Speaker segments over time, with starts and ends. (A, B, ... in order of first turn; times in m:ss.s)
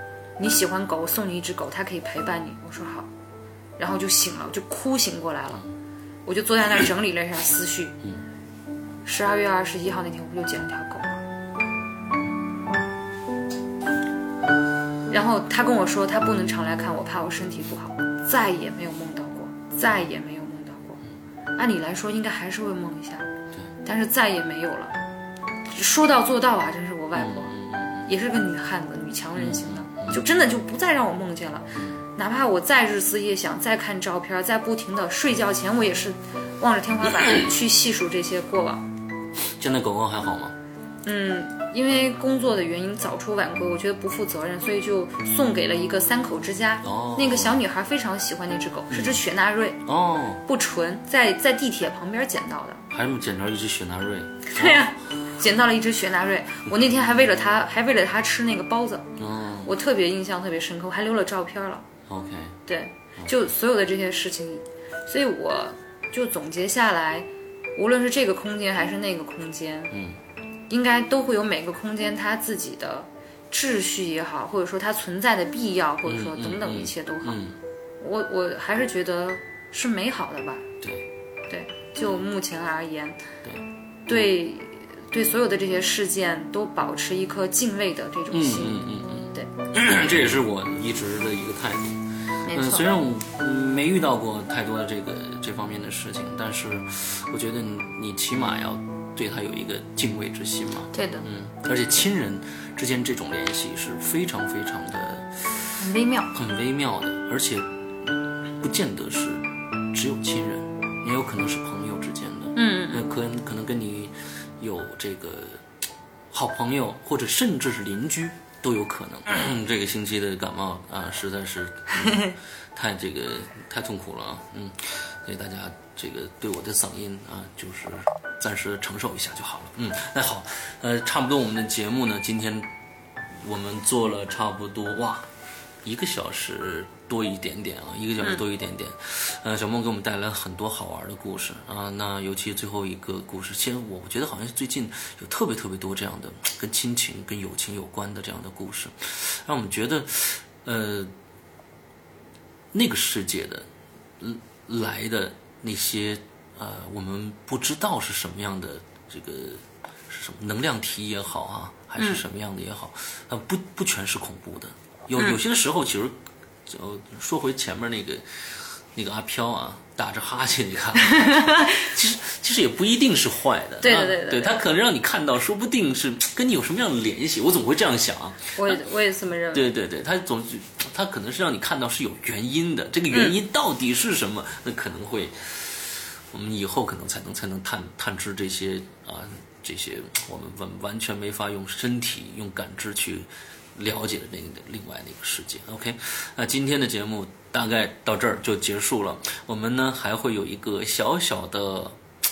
0:00.4-0:03.1 A
0:03.8-0:05.6 A
0:06.3-0:08.0 A
0:09.0-0:11.2 A
0:15.1-0:21.0 A
0:21.6-0:23.3 A
0:23.8-0:25.0 A
0:25.7-0:38.8 A
0:27.1-0:28.1 B
0:29.3-0:30.2 B
0:39.6-0:40.6 B
0:41.0-0:49.8 A
0:46.8-0:47.6 B
0:48.9-0:49.2 B
0:49.9-0:50.4 B
0:50.4-0:52.8 A
0:52.9-0:54.9 B
0:54.5-0:59.1 A
0:59.2-0:59.7 B
0:59.6-1:01.9 A
1:02.1-1:02.6 B
1:02.7-1:10.0 A
1:09.9-1:10.2 B
1:10.7-1:17.5 A
1:16.0-1:17.6 B
1:18.0-1:20.7 A
1:20.8-1:21.1 B
1:21.5-1:23.2 A
1:24.1-1:29.5 A
1:28.3-1:45.7 B
1:32.4-1:33.0 A
1:40.9-1:41.3 A
1:45.8-1:46.3 A
1:46.3-1:55.6 B
1:52.6-1:53.1 A
1:56.3-2:12.7 B
2:13.4-2:15.3 B
2:15.8-2:31.1 B
2:32.7-2:33.7 B
2:34.2-2:58.8 B
2:42.0-2:42.2 A
2:51.1-2:51.8 A
2:53.8-2:54.6 A
2:58.6-2:59.7 A
2:59.5-3:22.0 B
3:03.1-3:03.4 A